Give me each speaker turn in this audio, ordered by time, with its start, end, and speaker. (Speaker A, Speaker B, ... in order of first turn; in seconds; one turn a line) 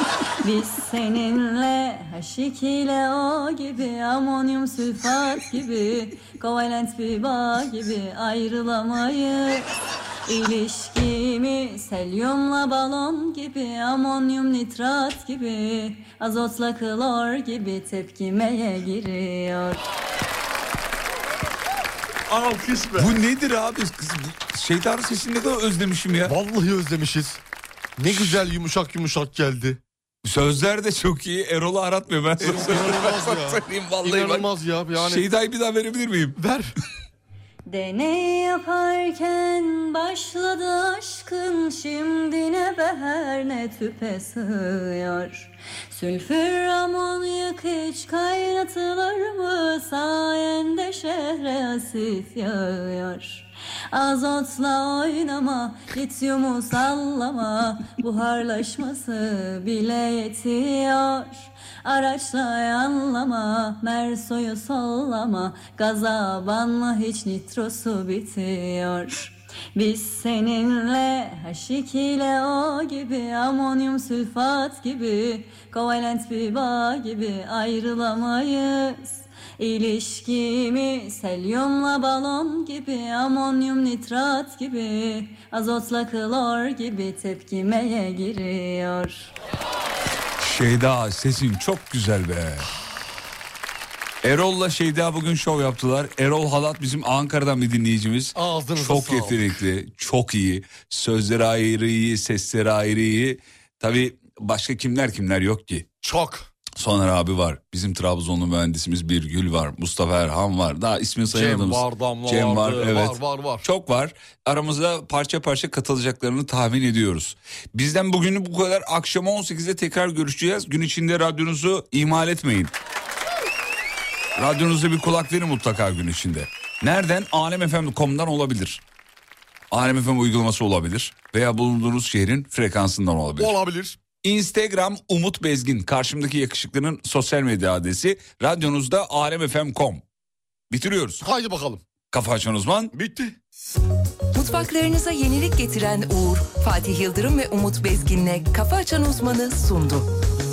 Speaker A: 0.4-9.7
Speaker A: 10.3-19.8
Speaker B: 22.3-23.1
Speaker C: 22.9-26.4
Speaker B: 26.2-27.4
Speaker B: 28.0-29.8
Speaker C: 28.1-28.4
Speaker C: 30.2-36.4
Speaker B: 32.4-35.2
Speaker B: 36.4-36.7
Speaker A: 37.7-89.3
Speaker C: 90.4-92.7
Speaker C: 94.2-105.9
Speaker B: 98.3-99.5
Speaker B: 106.0-106.5
Speaker C: 106.7-122.7
Speaker B: 111.3-113.6
Speaker C: 124.3-128.8
Speaker C: 129.7-133.6
Speaker B: 133.4-134.0
Speaker C: 134.2-140.0
Speaker C: 140.7-141.2
Speaker B: 141.2-141.8
Speaker C: 142.1-142.9
Speaker B: 142.9-143.3
Speaker D: 144.3-150.1